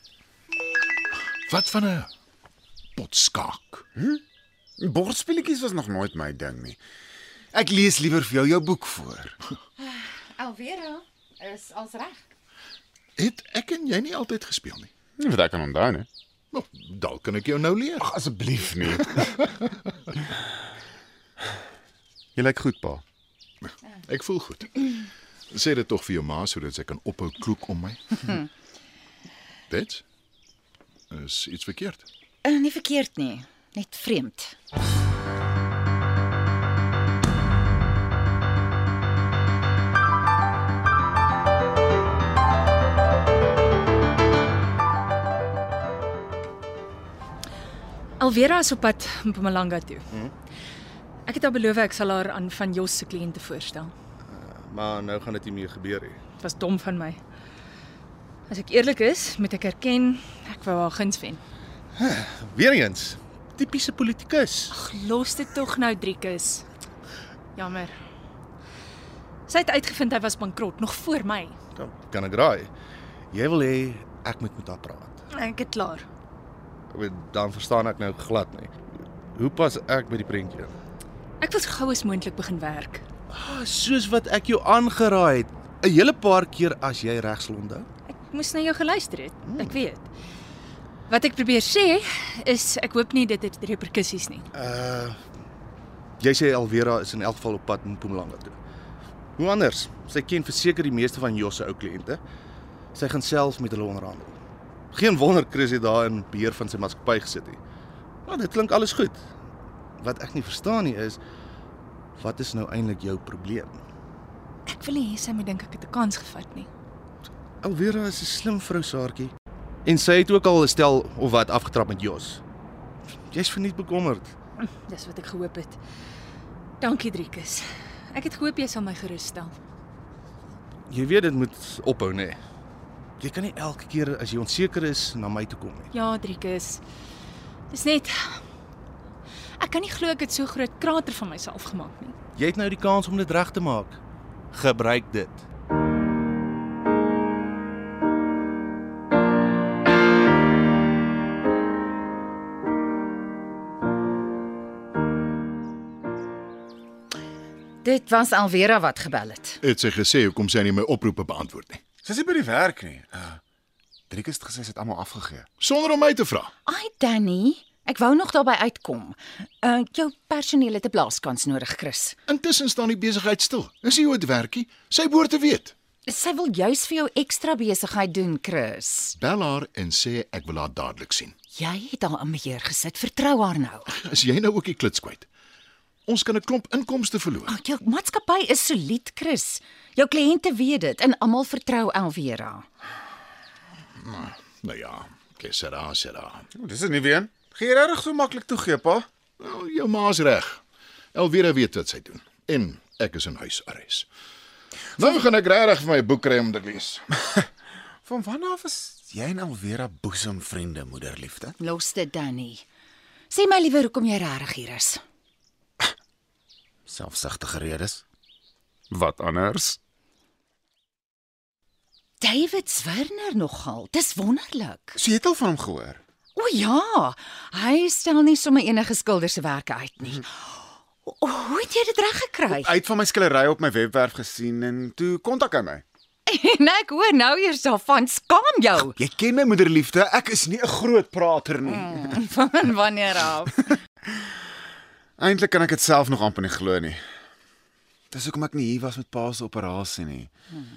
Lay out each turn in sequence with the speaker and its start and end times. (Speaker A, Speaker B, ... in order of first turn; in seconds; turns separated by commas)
Speaker A: 1.4-2.1, Speaker A: 3.0-3.9, Speaker B: 4.0-4.2, Speaker B: 4.8-6.8, Speaker B: 7.5-9.4, Speaker C: 9.8-12.2, Speaker A: 13.2-14.9, Speaker B: 15.2-16.1, Speaker A: 16.5-18.1, Speaker B: 18.0-19.4, Speaker B: 22.4-23.0, Speaker A: 24.1-28.4, Speaker A: 29.7-30.0, Speaker A: 31.1-32.0, Speaker C: 32.4-34.5, Speaker D: 48.2-50.1, Speaker D: 51.3-53.9, Speaker E: 54.3-56.2, Speaker D: 56.4-57.2, Speaker D: 58.5-61.4, Speaker E: 62.0-64.7, Speaker D: 64.7-66.7, Speaker D: 67.6-68.0, Speaker D: 69.5-71.6, Speaker E: 71.8-72.7, Speaker E: 73.3-75.2, Speaker D: 75.3-76.1, Speaker E: 76.9-78.8, Speaker E: 79.3-80.7, Speaker D: 81.4-83.0, Speaker E: 83.3-87.9, Speaker D: 88.1-90.1, Speaker E: 89.5-89.8, Speaker D: 91.1-94.5, Speaker E: 94.5-95.2, Speaker E: 96.2-98.6, Speaker E: 99.4-102.2, Speaker E: 102.9-104.4, Speaker E: 104.9-107.6, Speaker E: 108.3-109.3, Speaker E: 110.0-111.2, Speaker E: 112.2-113.8, Speaker D: 114.7-116.7, Speaker E: 117.6-119.3, Speaker E: 119.8-122.4, Speaker E: 123.3-124.3, Speaker D: 124.6-125.8, Speaker D: 126.8-129.5, Speaker E: 130.9-132.4, Speaker E: 133.2-135.9, Speaker D: 135.9-136.8, Speaker D: 137.7-138.4, Speaker D: 139.6-142.2, Speaker E: 142.4-144.0, Speaker E: 144.5-145.4, Speaker C: 157.8-159.6, Speaker A: 159.6-161.8, Speaker B: 162.0-163.4, Speaker B: 164.1-165.5, Speaker A: 165.6-166.5, Speaker C: 166.7-172.2, Speaker A: 172.3-175.8, Speaker C: 176.1-179.2, Speaker A: 179.2-181.3, Speaker C: 181.6-183.9, Speaker A: 183.9-185.3, Speaker A: 186.1-187.6, Speaker C: 187.5-192.7, Speaker A: 194.0-196.5, Speaker B: 196.5-199.1, Speaker A: 199.4-200.6, Speaker A: 201.1-204.1, Speaker A: 204.9-207.1, Speaker B: 208.1-211.6, Speaker C: 211.6-212.7, Speaker C: 213.3-215.0, Speaker B: 216.9-218.0, Speaker B: 218.9-219.8, Speaker C: 222.2-225.0, Speaker B: 225.0-226.0, Speaker C: 226.3-232.7, Speaker B: 232.5-235.8, Speaker C: 236.3-239.0, Speaker B: 238.8-242.0, Speaker C: 241.7-243.8, Speaker B: 245.2-247.0, Speaker B: 248.1-250.3